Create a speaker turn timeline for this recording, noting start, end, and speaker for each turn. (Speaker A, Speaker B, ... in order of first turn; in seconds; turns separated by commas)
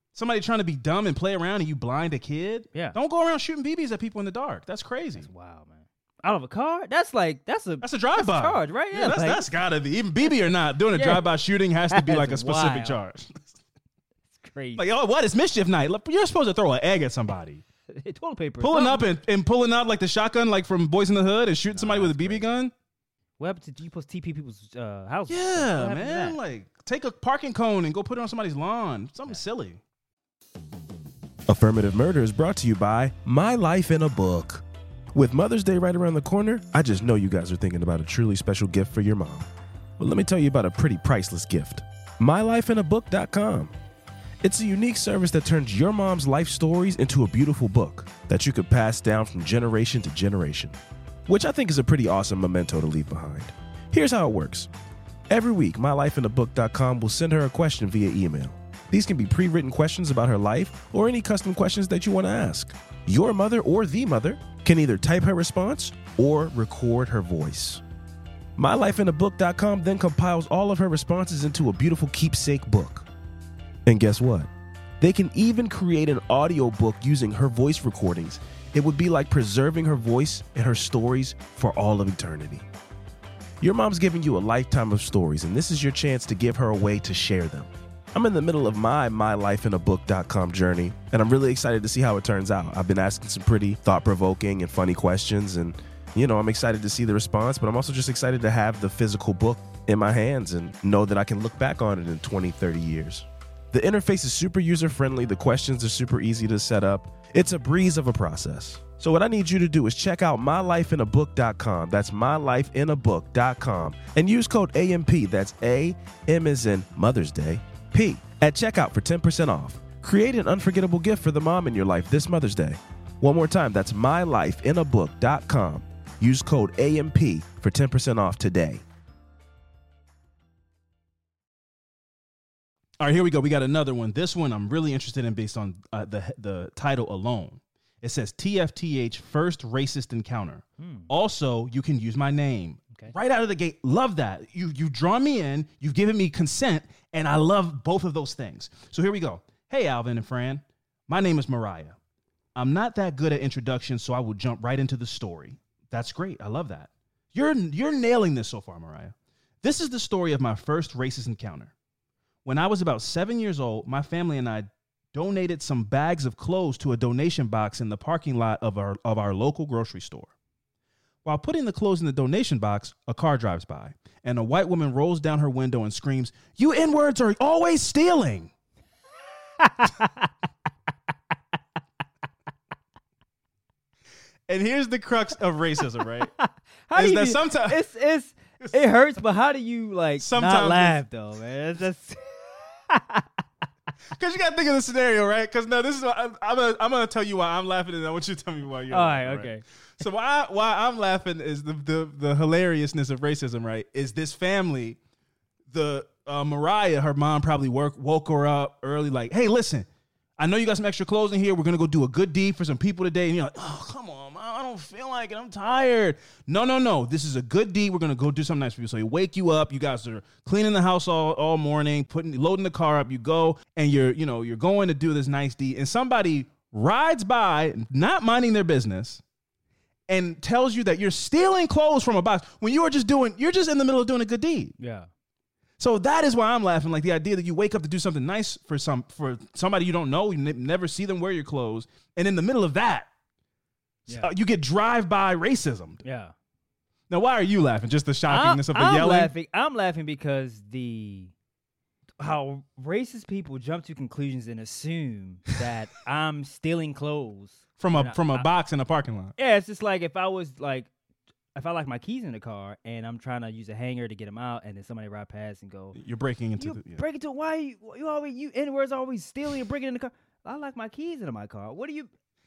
Speaker A: 0.1-5.3, Speaker B: 5.2-9.4, Speaker A: 7.8-13.6, Speaker B: 10.9-11.2, Speaker B: 11.9-13.0, Speaker B: 14.3-14.8, Speaker A: 14.8-17.6, Speaker B: 17.9-19.1, Speaker A: 18.6-22.7, Speaker B: 21.7-22.4, Speaker B: 23.4-26.4, Speaker A: 25.3-29.8, Speaker C: 31.5-39.5, Speaker C: 40.0-43.7, Speaker C: 44.4-54.7, Speaker C: 55.3-67.8, Speaker C: 68.6-73.1, Speaker C: 73.9-82.7, Speaker C: 83.6-128.8, Speaker A: 133.0-152.0, Speaker B: 140.8-141.1, Speaker A: 152.6-161.7, Speaker A: 162.4-170.3, Speaker A: 171.2-178.5, Speaker B: 179.6-180.3, Speaker A: 184.5-186.3, Speaker B: 186.2-193.3, Speaker A: 186.9-187.8, Speaker A: 190.2-191.0, Speaker A: 194.1-205.0, Speaker B: 198.9-199.6, Speaker A: 205.7-209.9, Speaker A: 210.4-229.2, Speaker A: 230.1-234.8, Speaker B: 234.8-235.1, Speaker A: 235.8-243.1, Speaker A: 244.1-246.0, Speaker B: 244.1-244.3, Speaker B: 246.0-246.3, Speaker A: 247.1-249.3, Speaker B: 248.3-251.3, Speaker B: 252.2-258.4, Speaker A: 257.8-259.4, Speaker B: 259.4-260.9, Speaker B: 261.6-266.0, Speaker A: 265.9-267.0, Speaker B: 266.6-272.1